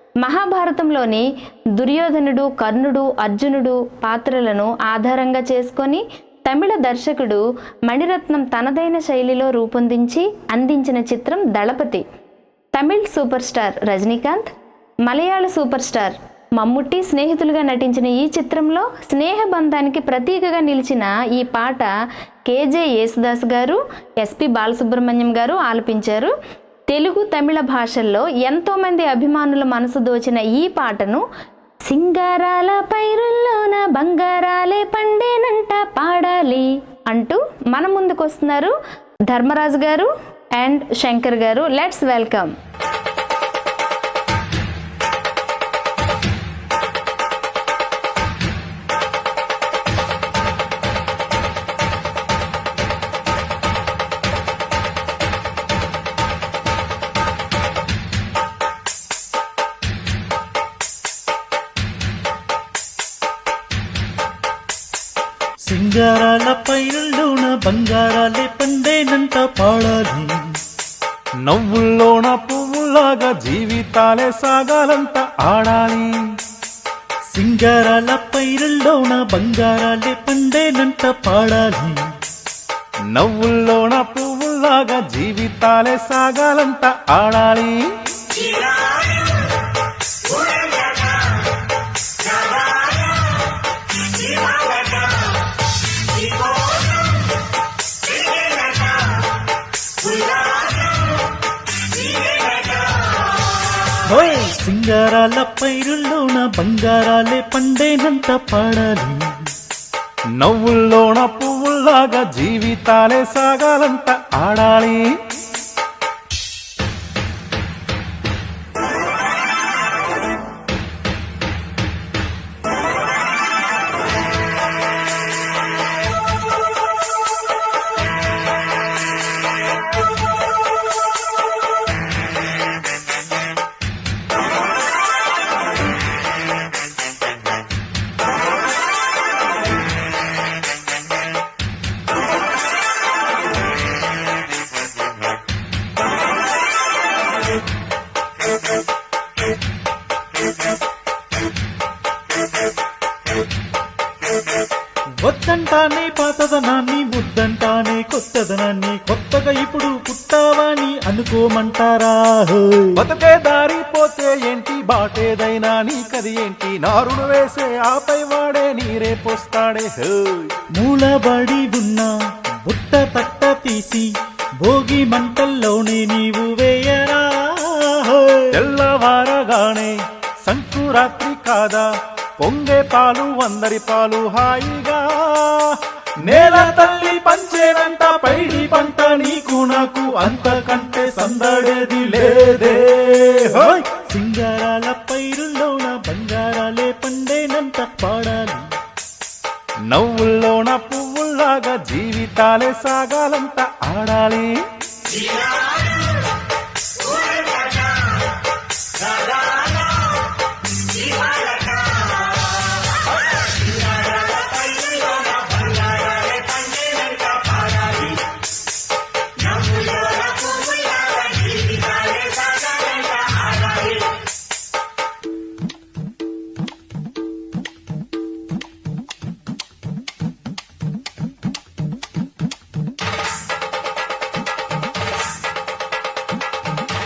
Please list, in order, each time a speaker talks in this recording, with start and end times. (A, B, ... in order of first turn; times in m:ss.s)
0:00.2-0:01.2 A
0:01.8-0:12.0 A
0:12.8-0:14.5 A
0:15.1-0:21.9 A
0:22.5-0:26.3 A
0:26.9-0:31.2 A
0:31.9-0:38.7 A
0:39.3-0:42.5 A
1:05.7-1:10.6 B
1:11.4-1:16.2 C
1:17.3-1:22.0 B
1:23.1-1:27.8 C
1:44.1-1:49.3 B
1:50.4-1:55.1 C
2:35.2-2:43.0 B
2:43.0-2:50.5 C
2:50.8-2:52.1 B
2:52.6-2:54.1 B
2:54.6-2:58.6 B
2:58.5-3:01.9 C
3:02.4-3:13.9 C
3:13.9-3:18.7 B
3:19.9-3:24.6 C
3:34.6-3:37.6 A
3:39.6-3:43.3 A